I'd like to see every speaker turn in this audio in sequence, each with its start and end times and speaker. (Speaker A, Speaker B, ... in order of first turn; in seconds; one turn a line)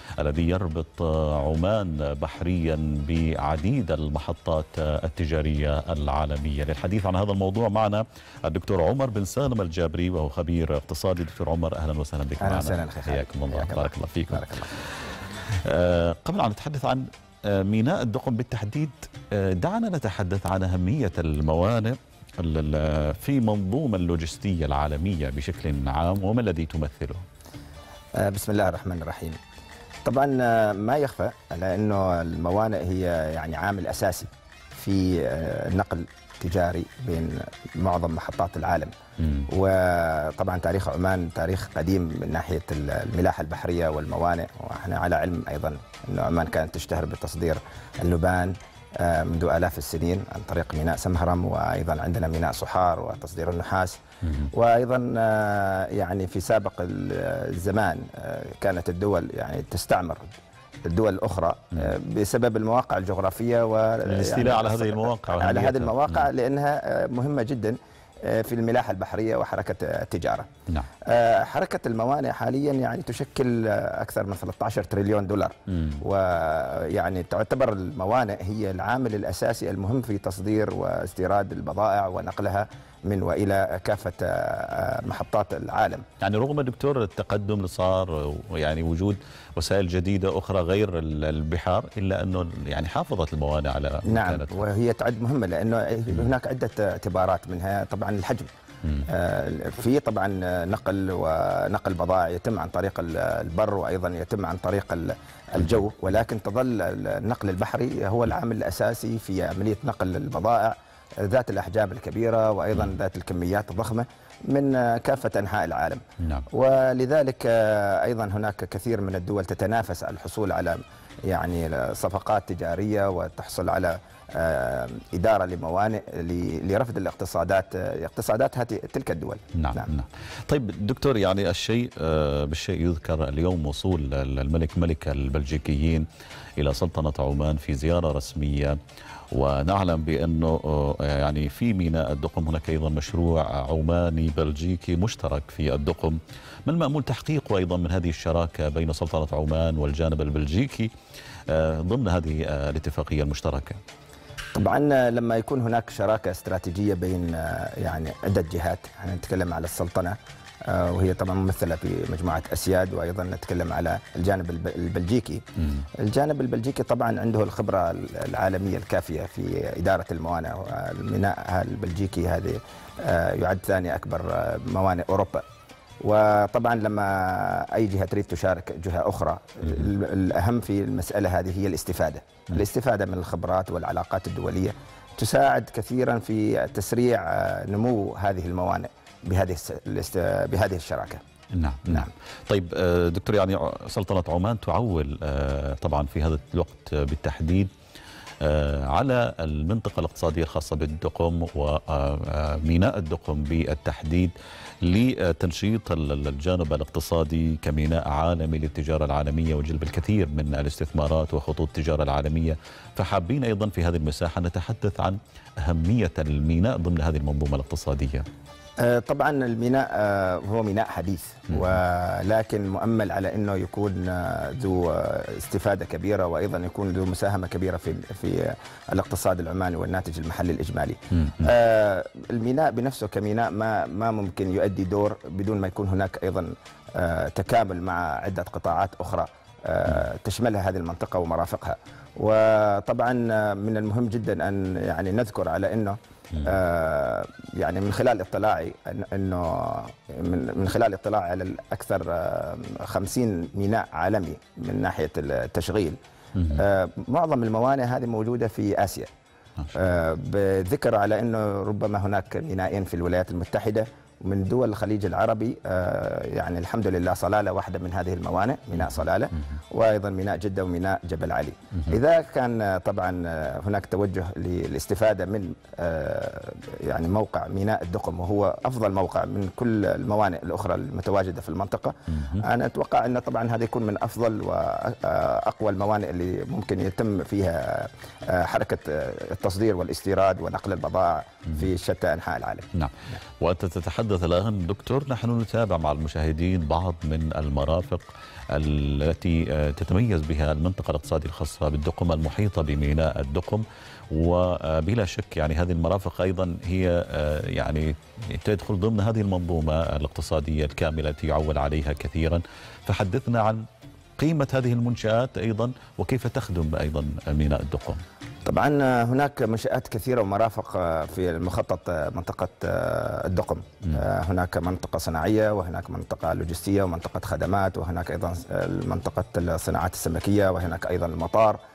Speaker A: 0.2-14.9
Speaker B: 12.4-14.7
Speaker A: 15.6-27.2
Speaker B: 28.2-29.4
Speaker B: 30.0-38.9
Speaker B: 39.5-54.0
Speaker B: 54.5-60.3
Speaker B: 60.9-70.5
Speaker A: 64.0-66.2
Speaker B: 71.0-86.0
Speaker A: 86.2-94.6
Speaker B: 94.0-98.5
Speaker B: 99.1-129.9
Speaker A: 129.6-136.0
Speaker A: 136.6-138.8
Speaker A: 139.3-150.9
Speaker A: 151.5-153.8
Speaker B: 154.5-160.2
Speaker B: 160.7-165.4
Speaker B: 166.0-175.4
Speaker B: 176.0-191.2
Speaker A: 191.5-197.7
Speaker A: 198.4-218.2
Speaker B: 218.8-255.9
Speaker A: 256.4-256.6
Speaker B: 256.5-259.1
Speaker B: 259.7-292.7
Speaker A: 292.7-313.6
Speaker A: 314.2-318.0
Speaker B: 318.4-331.6